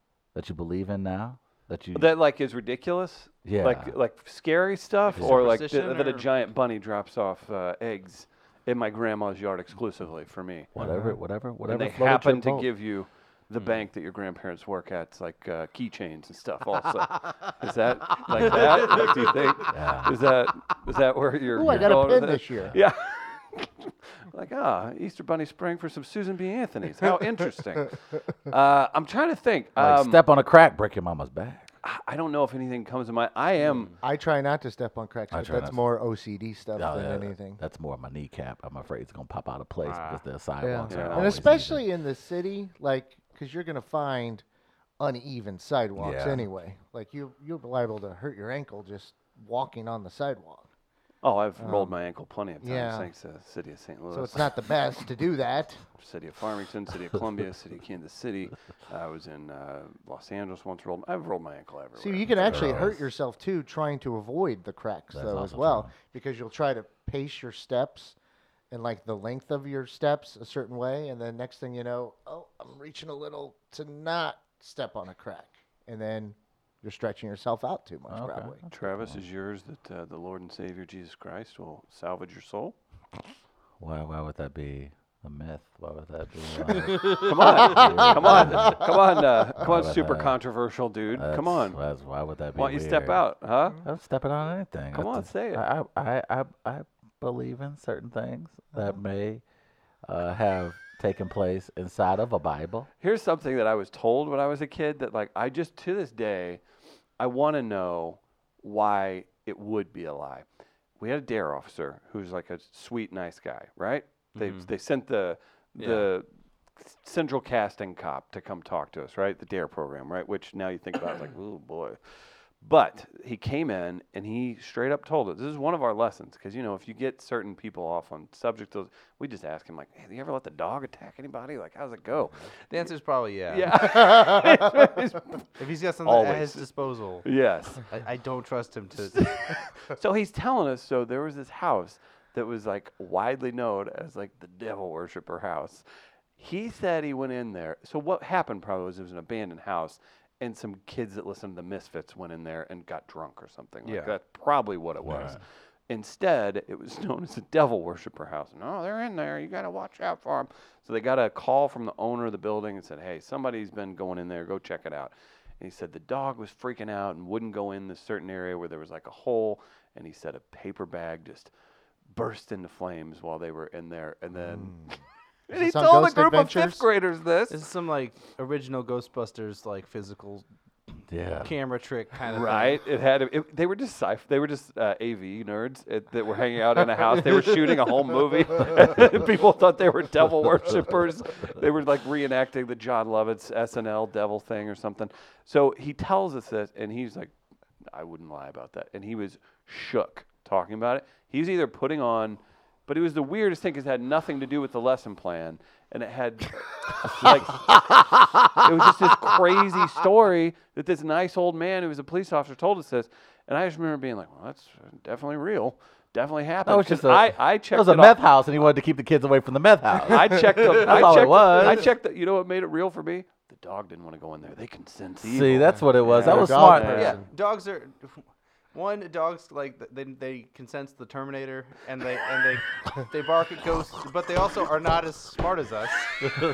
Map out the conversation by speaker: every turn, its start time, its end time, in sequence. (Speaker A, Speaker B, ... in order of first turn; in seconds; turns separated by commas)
Speaker A: 0.3-2.1, Speaker B: 1.9-10.7, Speaker A: 3.4-4.0, Speaker C: 5.1-6.3, Speaker A: 5.1-5.4, Speaker A: 10.7-12.7, Speaker D: 10.8-11.2, Speaker B: 11.7-30.2, Speaker A: 19.7-20.2, Speaker D: 21.5-22.7, Speaker A: 21.6-22.1, Speaker A: 29.8-31.7, Speaker B: 31.8-33.9, Speaker C: 33.6-34.0, Speaker D: 34.0-37.6, Speaker A: 35.3-35.8, Speaker A: 36.8-41.8, Speaker C: 39.8-40.2, Speaker D: 40.6-44.4, Speaker B: 40.9-41.4, Speaker D: 45.0-50.7, Speaker A: 46.0-46.5, Speaker B: 51.2-54.6, Speaker D: 51.6-52.0, Speaker D: 52.6-53.1, Speaker D: 54.1-55.8, Speaker B: 56.0-63.0, Speaker D: 62.0-68.2, Speaker A: 62.4-63.0, Speaker A: 65.1-65.9, Speaker D: 68.7-78.6, Speaker A: 78.1-79.2, Speaker B: 78.7-82.7, Speaker A: 83.8-88.8, Speaker D: 87.0-88.9, Speaker B: 87.0-91.8, Speaker A: 89.6-90.3, Speaker A: 91.1-93.2, Speaker B: 92.5-93.8, Speaker A: 93.8-99.4, Speaker B: 94.9-95.6, Speaker A: 100.0-102.9, Speaker B: 103.0-106.6, Speaker B: 107.2-110.5, Speaker B: 111.0-116.2, Speaker C: 114.3-114.7, Speaker C: 115.8-116.1, Speaker B: 116.8-132.5, Speaker C: 132.7-134.2, Speaker B: 133.5-135.5, Speaker C: 135.6-137.2, Speaker B: 136.0-136.7, Speaker B: 137.2-137.9, Speaker C: 137.8-139.3, Speaker B: 139.0-145.8, Speaker B: 146.4-171.5, Speaker C: 153.8-154.1, Speaker A: 155.0-155.4, Speaker B: 172.1-174.8, Speaker D: 174.4-174.9, Speaker B: 175.5-177.6, Speaker D: 175.5-176.8, Speaker C: 177.5-180.4, Speaker A: 181.1-181.5, Speaker C: 181.4-182.8, Speaker B: 182.3-197.3, Speaker B: 197.9-207.9, Speaker A: 207.2-209.3, Speaker B: 208.5-218.2, Speaker A: 216.6-221.9, Speaker B: 220.0-227.2, Speaker A: 225.2-227.2, Speaker D: 225.7-227.3, Speaker C: 227.2-236.3